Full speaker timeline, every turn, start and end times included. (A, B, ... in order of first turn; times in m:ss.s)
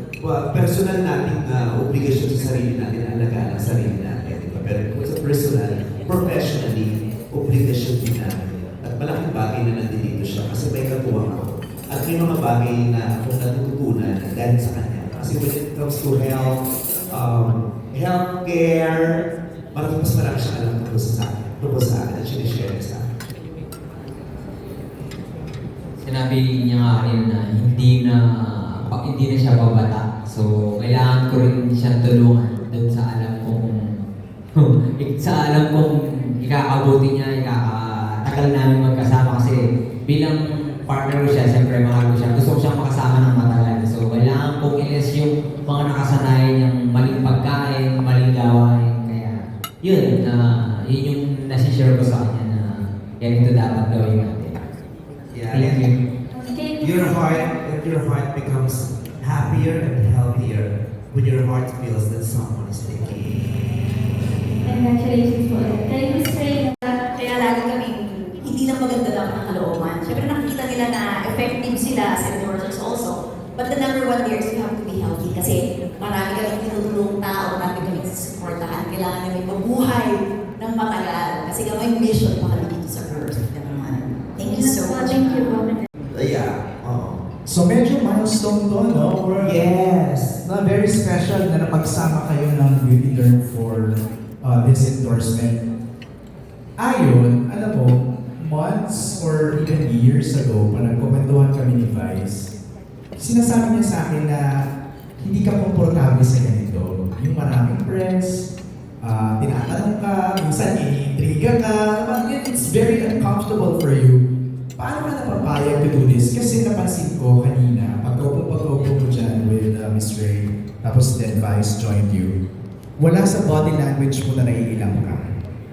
0:00.2-0:16.6 A
0:17.1-0:19.1 A
0:19.7-0:23.0 A
0:26.0-0:33.7 B
0:34.6-0:54.6 B
0:55.3-0:55.8 A
0:55.5-0:55.9 B
0:56.3-0:57.5 C
0:56.8-1:03.7 A
1:04.7-1:07.4 C
1:07.3-1:25.6 D
1:24.4-1:25.8 C
1:26.1-1:27.2 A
1:27.5-1:29.6 E
1:29.3-1:30.4 A
1:30.4-1:35.6 E
1:36.8-1:42.5 E
1:43.2-1:44.4 E
1:45.2-1:48.4 E
1:49.0-1:54.2 E
1:54.8-2:02.4 E
2:03.0-2:05.2 E